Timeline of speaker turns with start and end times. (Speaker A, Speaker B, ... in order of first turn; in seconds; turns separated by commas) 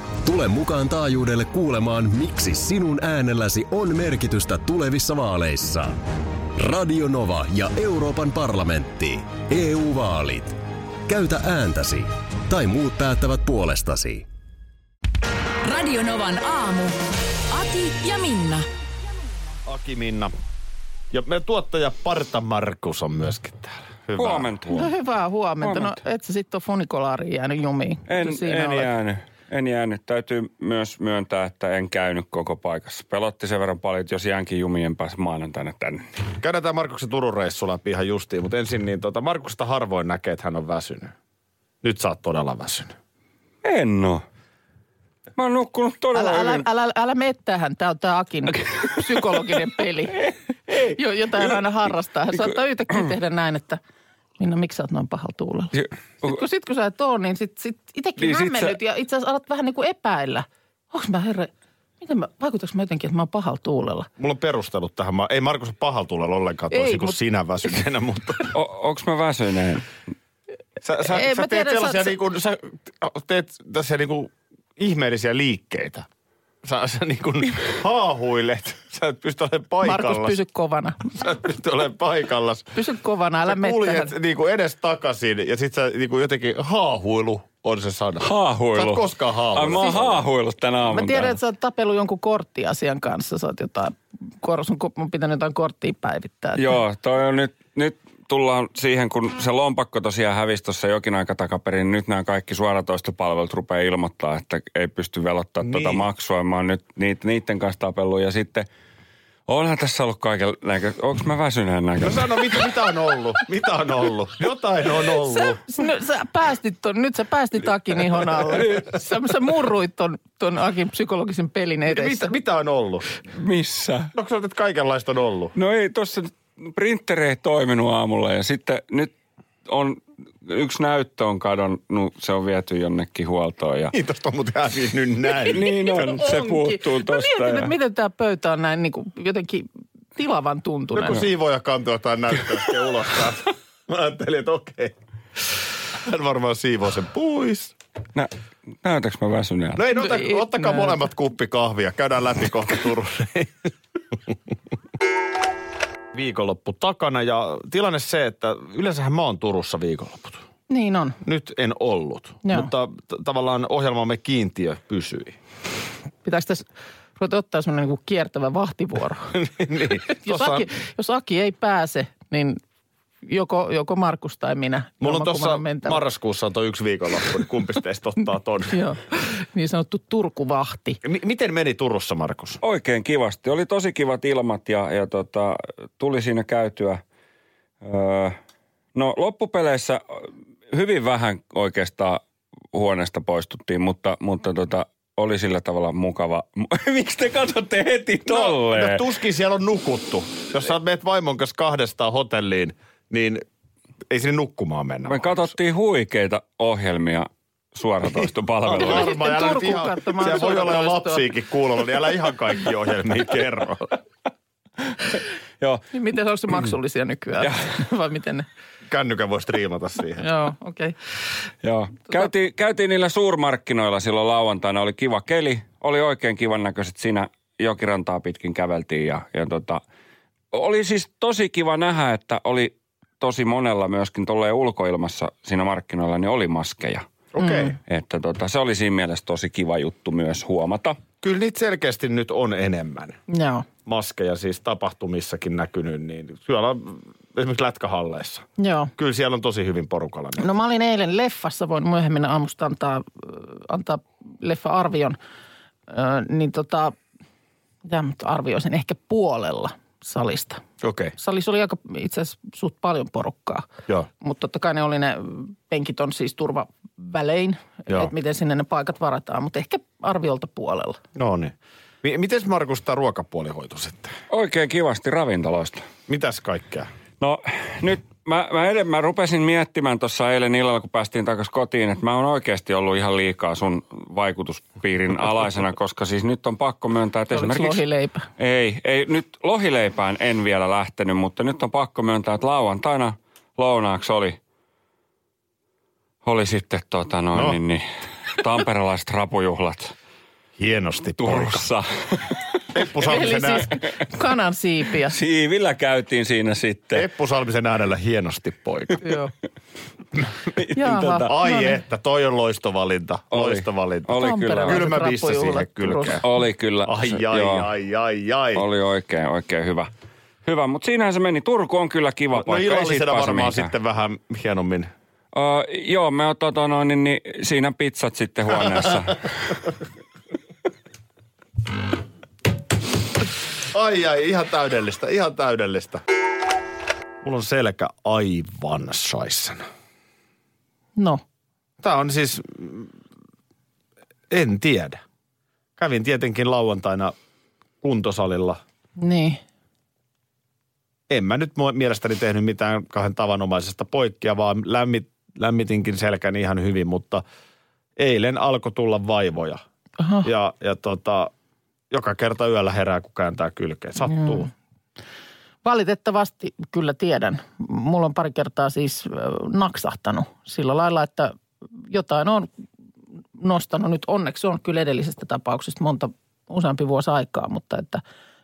Speaker A: 0.2-6.0, Speaker A: 6.5-14.2, Speaker B: 15.6-17.0, Speaker B: 17.5-18.6, Speaker C: 19.6-20.3, Speaker C: 21.1-24.6, Speaker D: 24.2-24.9, Speaker E: 24.7-28.9, Speaker D: 25.6-26.0, Speaker D: 28.1-36.0, Speaker C: 36.4-41.1, Speaker C: 41.8-42.9, Speaker D: 43.6-44.2, Speaker D: 45.4-46.6, Speaker E: 46.1-50.3, Speaker E: 50.8-53.8, Speaker E: 54.4-64.1, Speaker D: 55.7-56.3, Speaker D: 58.2-58.7, Speaker C: 64.2-68.5, Speaker E: 66.7-67.2, Speaker D: 68.5-69.8, Speaker C: 70.8-76.1, Speaker E: 71.0-72.1, Speaker C: 76.6-80.3, Speaker E: 79.8-81.1, Speaker C: 81.1-82.7, Speaker E: 82.7-84.1, Speaker C: 83.4-90.2, Speaker D: 88.2-91.4, Speaker E: 90.9-96.7, Speaker D: 96.5-108.7, Speaker C: 105.6-106.0, Speaker D: 109.5-112.6, Speaker C: 112.0-115.6, Speaker E: 115.2-122.3, Speaker C: 121.9-123.1, Speaker D: 123.3-124.1, Speaker C: 124.1-125.5, Speaker D: 125.5-129.1, Speaker D: 129.7-133.9, Speaker C: 133.9-135.7, Speaker D: 135.5-137.7, Speaker E: 135.6-141.3, Speaker C: 140.9-144.9, Speaker C: 145.5-147.7, Speaker D: 148.8-149.8, Speaker C: 149.8-153.7, Speaker E: 149.9-151.0, Speaker C: 156.1-160.4, Speaker E: 160.7-161.2, Speaker C: 161.2-165.4, Speaker E: 162.4-162.7, Speaker E: 166.2-169.3, Speaker C: 169.3-170.7, Speaker E: 170.1-172.6, Speaker E: 173.2-176.0, Speaker C: 175.0-178.8, Speaker E: 178.7-181.0, Speaker C: 181.0-182.6, Speaker D: 182.6-187.0, Speaker D: 187.8-188.4, Speaker D: 188.9-192.2, Speaker D: 192.7-199.1, Speaker C: 198.2-203.4, Speaker C: 204.1-205.5, Speaker D: 205.1-209.2, Speaker C: 208.2-214.0, Speaker E: 208.8-211.2, Speaker E: 215.9-218.5, Speaker C: 218.9-220.2, Speaker E: 220.2-220.9, Speaker D: 221.6-229.8, Speaker D: 230.5-237.1, Speaker C: 237.3-237.8, Speaker E: 237.4-237.7, Speaker D: 237.9-241.0, Speaker C: 241.2-243.2, Speaker E: 243.3-243.7, Speaker C: 243.8-248.4, Speaker E: 248.6-248.9, Speaker C: 249.0-250.4, Speaker E: 250.4-255.2, Speaker E: 255.9-256.9, Speaker E: 257.9-260.6, Speaker C: 260.8-261.1, Speaker E: 261.2-263.7, Speaker E: 264.2-271.0, Speaker C: 271.1-274.1, Speaker D: 274.3-275.9, Speaker C: 276.1-276.9, Speaker D: 277.2-287.8, Speaker E: 287.3-288.2, Speaker D: 288.4-294.4, Speaker D: 296.2-299.9, Speaker C: 300.6-301.7, Speaker D: 301.2-302.4, Speaker C: 302.7-303.7, Speaker E: 303.1-305.1, Speaker D: 305.1-307.1, Speaker C: 306.9-309.0, Speaker E: 309.0-309.3, Speaker D: 310.5-311.3, Speaker E: 310.7-311.7, Speaker C: 311.3-316.2, Speaker D: 313.3-314.9, Speaker E: 314.2-316.2, Speaker D: 316.2-317.6, Speaker C: 316.8-318.6, Speaker D: 318.5-319.9, Speaker D: 320.4-323.7, Speaker C: 322.3-324.9, Speaker D: 325.3-329.7, Speaker C: 333.7-336.0, Speaker C: 337.2-339.6, Speaker E: 341.0-341.2, Speaker C: 341.8-342.9, Speaker C: 344.3-345.0, Speaker C: 345.8-347.1, Speaker C: 347.8-348.6, Speaker E: 349.0-349.4, Speaker C: 351.1-357.2, Speaker C: 358.0-359.6, Speaker E: 360.0-360.3, Speaker C: 360.2-361.3, Speaker C: 361.9-364.5, Speaker E: 364.0-364.5, Speaker E: 365.6-372.5, Speaker E: 373.4-378.0